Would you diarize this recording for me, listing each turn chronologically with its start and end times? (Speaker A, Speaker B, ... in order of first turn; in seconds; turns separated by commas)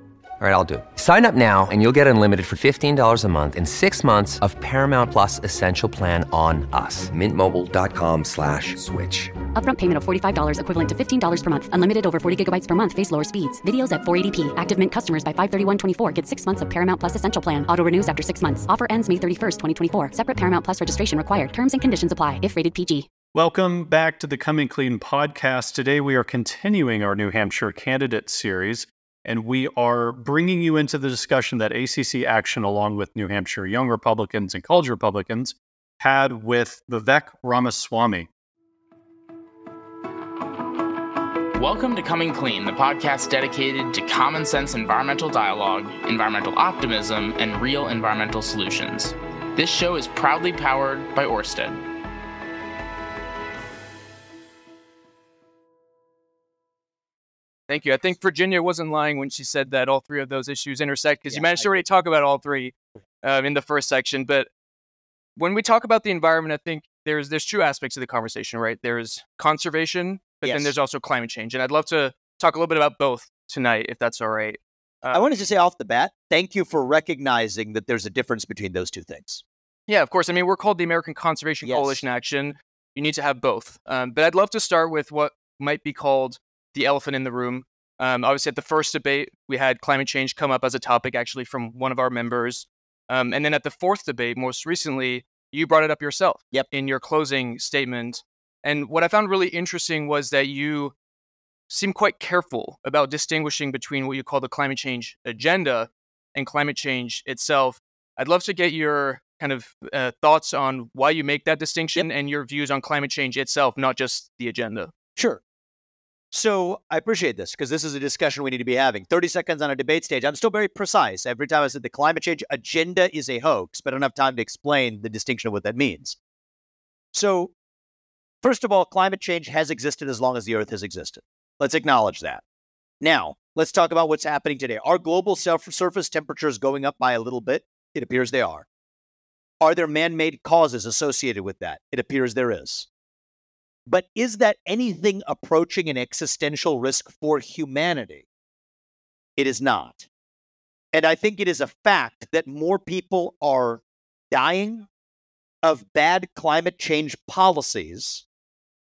Speaker A: 0.4-9.3, Speaker B: 9.6-23.1, Speaker C: 23.3-38.3, Speaker D: 41.6-51.8, Speaker E: 57.7-64.5, Speaker F: 61.3-61.8, Speaker E: 65.4-75.3, Speaker F: 70.4-70.7, Speaker F: 75.1-79.4, Speaker E: 79.9-100.9, Speaker F: 81.6-82.0, Speaker E: 101.7-114.9, Speaker F: 115.2-115.4, Speaker F: 116.3-126.2, Speaker F: 127.1-127.5, Speaker F: 128.4-132.4, Speaker F: 133.0-138.7, Speaker F: 139.6-142.9, Speaker F: 143.9-148.3, Speaker F: 149.4-150.1, Speaker F: 150.9-154.9, Speaker F: 155.6-158.2